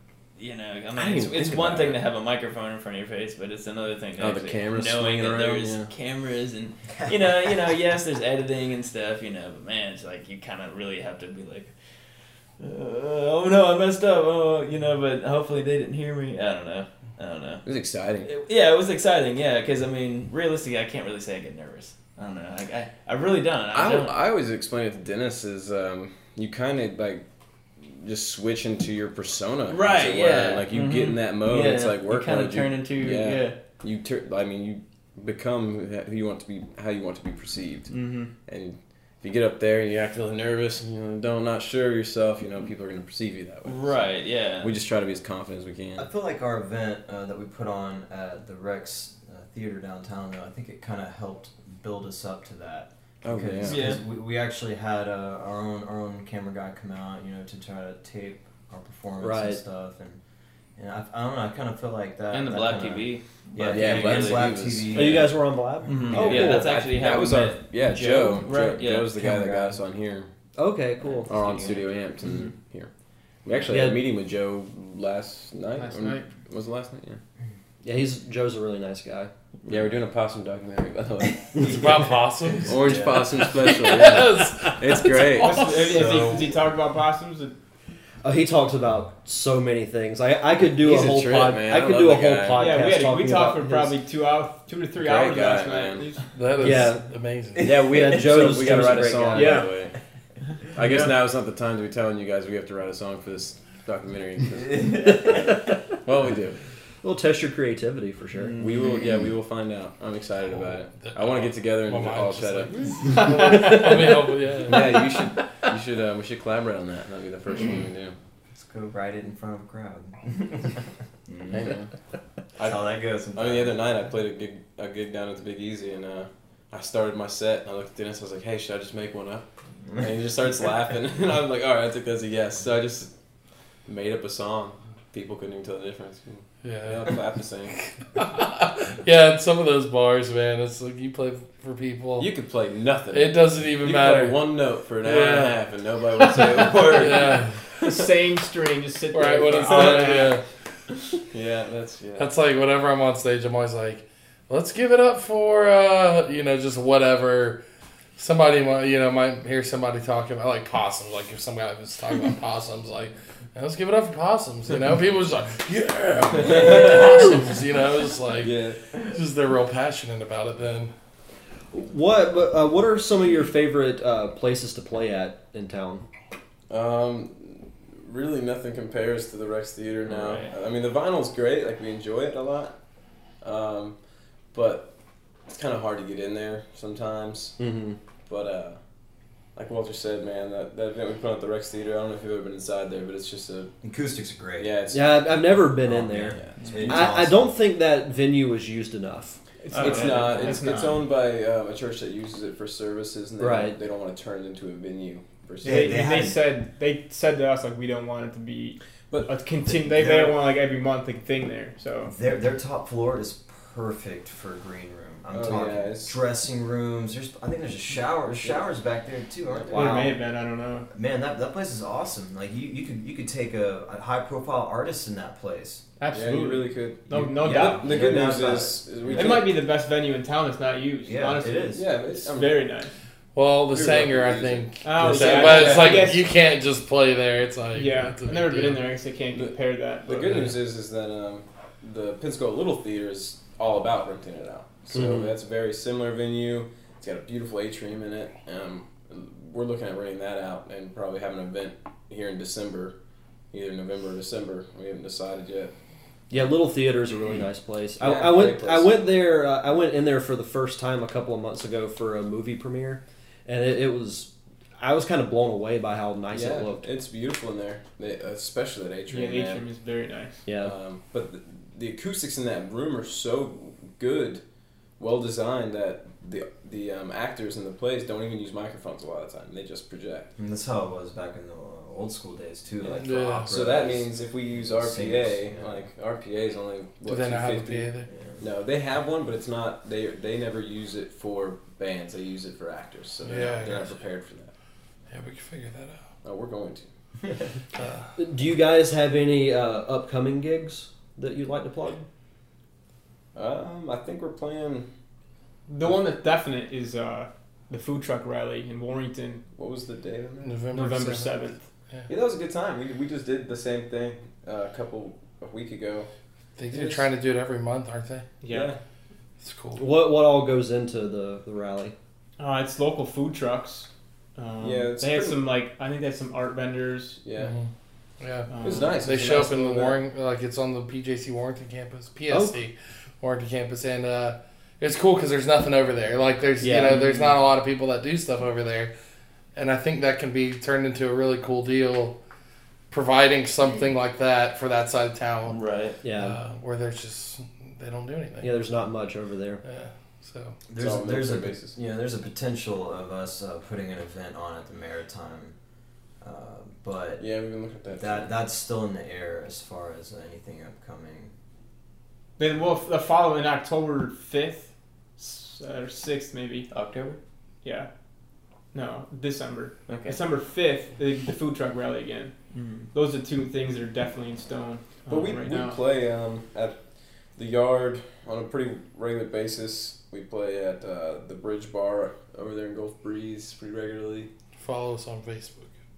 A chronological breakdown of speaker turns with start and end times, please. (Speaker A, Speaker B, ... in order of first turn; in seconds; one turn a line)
Speaker A: 0.4-17.7
Speaker B: 0.9-2.0
Speaker B: 4.2-5.9
Speaker B: 17.6-18.3
Speaker A: 18.3-24.1
Speaker B: 23.7-46.1
Speaker A: 29.7-33.6
Speaker A: 37.9-38.3
Speaker A: 43.6-44.7
Speaker C: 46.0-60.2
Speaker B: 53.2-54.0
Speaker A: 53.7-54.0
Speaker D: 59.2-59.6
Speaker C: 60.8-65.3
Speaker A: 62.3-64.6
Speaker B: 63.6-65.3
Speaker D: 64.9-66.7
Speaker A: 65.9-69.3
Speaker B: 66.0-70.3
Speaker C: 69.2-69.8
Speaker D: 70.5-71.3
Speaker A: 71.1-72.5
Speaker B: 71.3-77.2
Speaker D: 73.7-74.0
Speaker E: 75.8-76.3
Speaker D: 77.8-79.3
Speaker B: 79.7-81.9
Speaker C: 81.5-83.7
Speaker F: 81.7-85.3
Speaker B: 82.6-85.7
Speaker E: 85.3-87.6
Speaker C: 85.7-86.5
Speaker D: 88.2-94.0
Speaker B: 90.7-92.7
Speaker E: 92.5-96.3
Speaker B: 95.0-96.2
Speaker F: 96.3-97.7
Speaker D: 96.6-97.1
Speaker C: 97.5-97.9
Speaker B: 97.6-105.3
Speaker D: 97.8-99.7
Speaker E: 99.3-99.8
Speaker C: 104.8-105.3
Speaker B: 106.0-106.7
Speaker D: 107.0-108.6
Speaker A: 108.4-109.1
Speaker B: 108.6-118.2
Speaker F: 110.6-115.3
Speaker E: 113.1-113.3
Speaker C: 118.5-121.8
Speaker B: 121.5-121.9
Speaker B: 122.5-137.8
Speaker C: 122.5-123.8
Speaker F: 136.6-142.6
Speaker B: 142.2-147.9
Speaker F: 143.1-147.8
Speaker A: 146.6-147.3
Speaker E: 147.8-150.4
Speaker F: 149.1-150.5
Speaker B: 149.5-150.3
Speaker B: 151.3-152.3
Speaker F: 152.2-157.6
Speaker F: 158.2-170.9
Speaker B: 166.4-167.4
Speaker B: 168.4-169.1
Speaker D: 171.7-176.1
Speaker B: 176.7-193.8
Speaker A: 180.1-180.5
Speaker D: 187.6-188.0
Speaker C: 193.8-197.6
Speaker B: 194.6-195.7
Speaker D: 194.9-199.4
Speaker B: 196.3-197.1
Speaker E: 199.6-201.1
Speaker B: 199.7-206.2
Speaker A: 199.8-200.5
Speaker D: 203.4-203.8
Speaker C: 205.6-206.4
Speaker E: 205.6-212.1
Speaker B: 209.1-209.3
Speaker C: 209.7-210.4
Speaker C: 212.1-220.2
Speaker B: 215.3-216.2
Speaker B: 219.6-219.9
Speaker E: 219.7-220.9
Speaker C: 220.9-225.9
Speaker E: 226.0-228.4
Speaker B: 226.1-229.6
Speaker C: 227.4-229.4
Speaker E: 229.1-232.9
Speaker C: 231.1-231.9
Speaker B: 231.7-232.8
Speaker F: 233.3-238.9
Speaker B: 233.7-236.2
Speaker E: 234.8-236.3
Speaker E: 237.7-240.6
Speaker B: 239.3-253.0
Speaker D: 244.9-245.3
Speaker B: 253.5-255.7
Speaker D: 256.3-266.9
Speaker B: 258.0-258.9
Speaker B: 266.3-269.7
Speaker E: 269.1-270.5
Speaker D: 270.4-270.8
Speaker B: 270.6-274.4
Speaker B: 275.0-280.3
Speaker C: 280.4-285.9
Speaker F: 282.8-283.7
Speaker B: 283.5-294.5
Speaker F: 287.1-288.1
Speaker C: 288.1-288.4
Speaker F: 293.2-294.1
Speaker F: 295.1-296.1
Speaker B: 296.2-296.9
Speaker F: 297.8-298.1
Speaker D: 298.2-302.1
Speaker B: 303.4-304.9
Speaker E: 305.7-309.4
Speaker B: 309.5-310.6
Speaker F: 310.4-312.1
Speaker E: 310.7-311.6
Speaker B: 312.1-316.1
Speaker F: 316.6-318.3
Speaker B: 316.7-317.1
Speaker E: 318.4-318.7
Speaker B: 318.5-318.8
Speaker F: 319.4-319.8
Speaker D: 319.8-321.9
Speaker E: 322.4-327.2
Speaker B: 324.6-325.4
Speaker B: 327.2-327.6
Speaker F: 327.4-338.9
Speaker E: 328.5-329.0
Speaker B: 328.6-330.0
Speaker D: 332.3-332.6
Speaker D: 336.6-337.0
Speaker A: 336.9-337.2
Speaker F: 339.5-342.2
Speaker F: 342.9-348.7
Speaker A: 345.5-346.0
Speaker D: 346.0-346.4
Speaker D: 348.4-349.6
Speaker F: 349.6-350.6
Speaker C: 350.7-361.3
Speaker B: 350.7-351.8
Speaker B: 357.2-358.3
Speaker E: 362.4-366.7
Speaker A: 366.7-367.2
Speaker E: 367.6-375.8
Speaker A: 369.9-370.2
Speaker A: 372.5-372.9
Speaker B: 375.1-384.3
Speaker F: 384.6-385.8